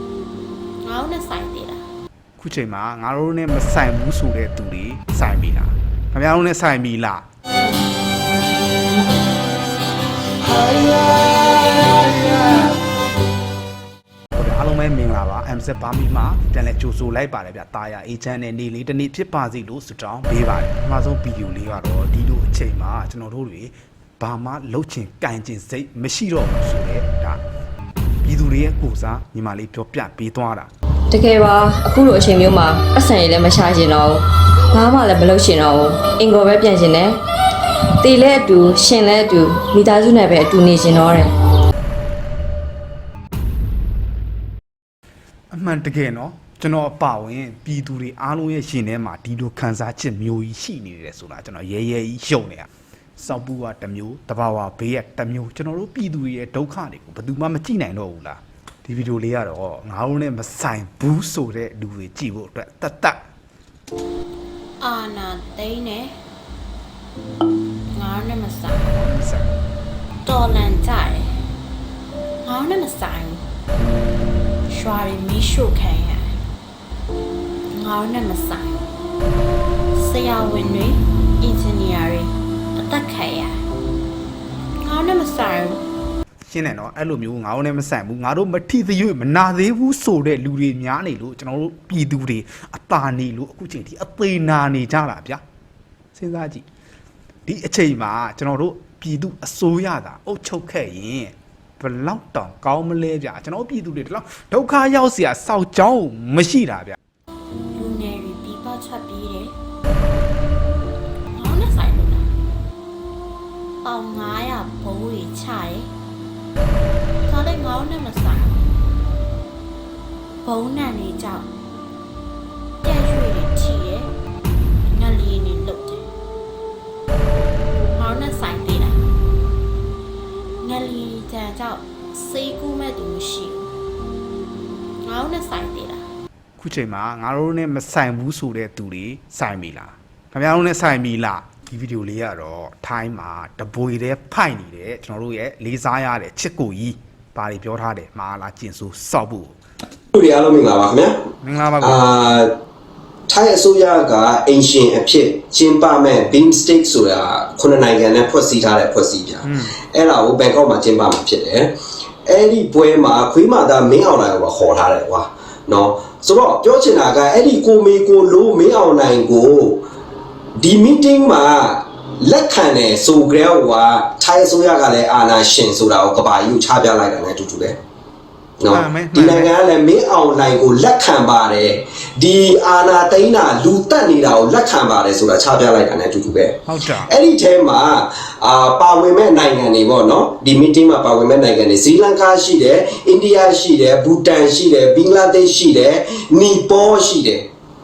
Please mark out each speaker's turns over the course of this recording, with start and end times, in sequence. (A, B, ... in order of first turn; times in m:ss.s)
0:00.8-0:01.9 A
0:02.4-0:07.2 B
0:14.3-0:27.4 B
0:28.2-0:30.7 B
0:31.1-0:37.2 C
0:38.0-0:41.3 C
0:45.5-1:03.2 B
1:04.8-1:06.2 A
1:07.9-1:09.0 A
1:08.9-1:09.5 B
1:10.2-1:11.4 A
1:12.4-1:13.4 A
1:14.7-1:16.4 A
1:17.7-1:18.8 A
1:19.9-1:23.6 A
1:24.8-1:25.8 A
1:26.4-1:35.4 B
1:36.1-1:36.6 B
1:37.4-1:47.0 B
1:47.7-1:49.5 A
1:51.4-1:52.3 A
1:53.8-1:55.9 A
1:57.2-1:58.7 A
2:00.4-2:01.5 A
2:02.8-2:04.1 A
2:04.9-2:06.1 A
2:07.6-2:09.0 A
2:10.6-2:13.7 A
2:15.0-2:16.1 A
2:16.6-2:29.6 B
2:30.1-2:31.2 D
2:31.4-2:32.0 B
2:31.8-2:32.5 D
2:33.3-2:41.7 D
2:39.4-2:39.8 B
2:42.2-2:49.8 D
2:50.6-2:57.8 D
2:58.6-3:17.4 D
2:58.7-2:59.5 B
3:06.7-3:07.1 B